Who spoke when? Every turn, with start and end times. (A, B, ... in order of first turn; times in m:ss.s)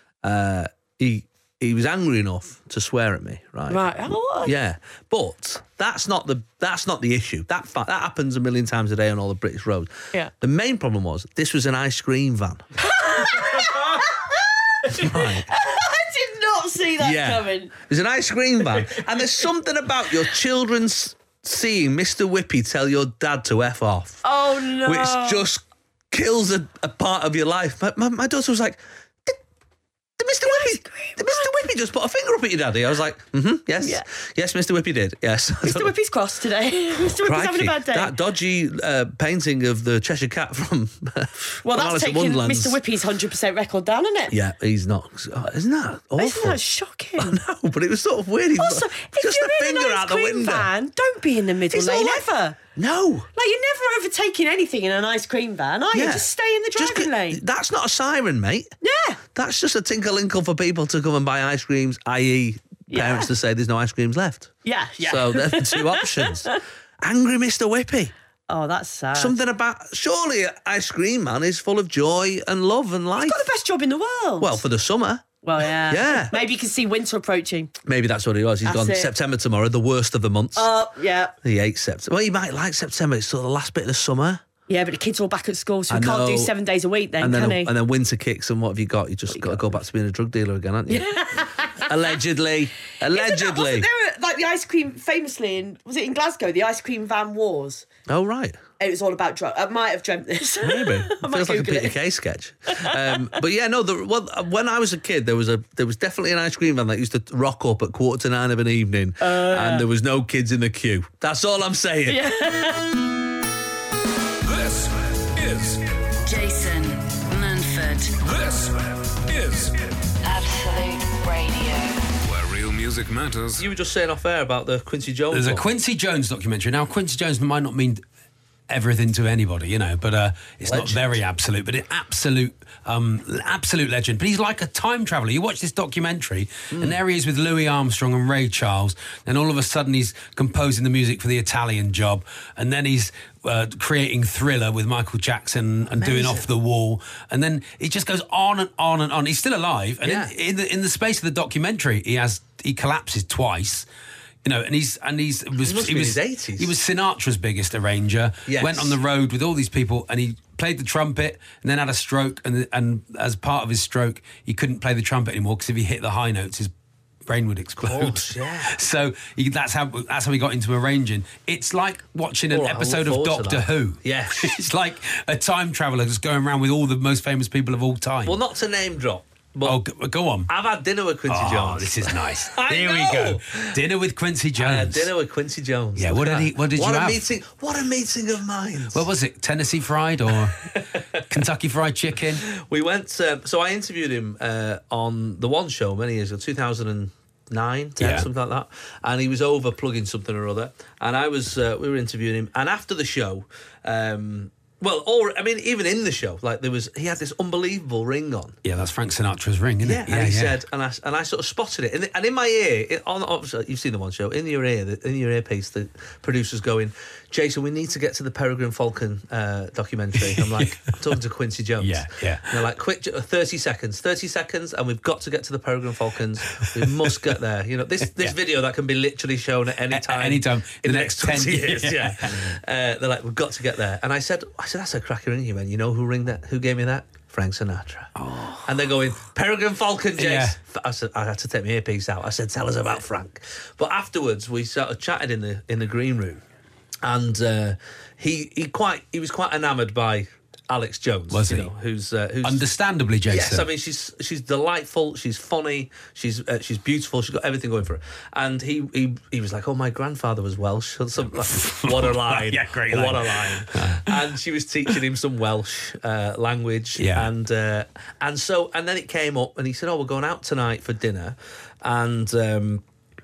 0:00.2-0:03.8 A
0:03.7-0:04.5 B
0:04.4-0:12.7 A
0:12.8-0:17.7 B
0:14.9-0:15.5 A
0:17.0-0:24.3 A
0:24.2-0:25.5 B
0:24.8-0:29.4 A
0:30.2-0:35.9 A
0:30.4-0:31.4 B
0:35.6-0:38.1 B
0:37.1-0:42.8 A
0:41.6-0:44.3 B
0:44.3-0:46.6 A
0:46.2-0:47.3 B
0:47.2-0:50.7 A
0:48.5-0:52.6 B
0:51.7-0:53.3 A
0:53.3-0:57.4 B
0:55.9-0:58.7 A
0:58.8-0:59.2 B
0:59.3-1:08.1 A
1:02.9-1:03.3 B
1:04.6-1:06.5 B
1:08.5-1:09.4 B
1:09.1-1:13.5 A
1:13.1-1:14.6 B
1:14.4-1:15.3 A
1:15.4-1:17.7 B
1:15.8-1:16.4 A
1:17.8-1:20.7 A
1:18.6-1:19.1 B
1:20.5-1:21.3 B
1:21.4-1:24.4 A
1:24.7-1:27.7 B
1:25.9-1:26.5 A
1:27.2-1:33.9 A
1:29.3-1:29.7 B
1:30.9-1:31.9 B
1:33.1-1:37.9 B
1:38.1-1:38.6 A
1:38.8-1:42.0 B
1:40.6-1:52.3 A
1:42.7-1:43.2 B
1:49.2-1:49.8 B
1:52.1-1:52.8 B
1:54.4-1:56.0 C
1:56.2-1:58.1 D
1:58.2-1:59.9 C
2:00.2-2:02.0 D
2:02.2-2:03.6 C
2:03.6-2:05.7 A
2:05.3-2:08.0 E
2:08.7-2:33.9 E
2:10.6-2:11.2 A
2:16.7-2:17.0 A
2:26.0-2:26.5 A
2:30.0-2:30.3 A
2:34.4-2:46.7 E
2:35.6-2:36.7 A
2:38.4-2:39.0 A
2:47.2-2:58.4 E
2:47.8-2:48.7 A
2:52.5-2:54.6 A
2:58.2-2:59.8 A
2:59.6-3:00.5 E
3:00.5-3:03.8 A
3:01.3-3:05.1 E
3:04.6-3:09.1 A
3:06.0-3:07.3 E
3:08.9-3:10.6 E
3:11.3-3:12.4 E
3:12.5-3:28.6 A
3:18.0-3:18.3 E
3:28.6-3:30.6 E
3:29.8-3:58.1 A
3:40.2-3:41.0 E
3:41.8-3:42.6 E
3:46.5-3:47.1 E
3:48.0-3:48.4 E
3:49.9-3:52.6 E
3:58.2-3:58.7 E
3:58.6-4:06.4 A
4:00.2-4:00.6 E
4:07.0-4:12.6 A
4:11.3-4:11.7 E
4:12.4-4:13.7 E
4:13.3-4:32.8 A
4:21.4-4:24.3 E
4:27.0-4:27.3 E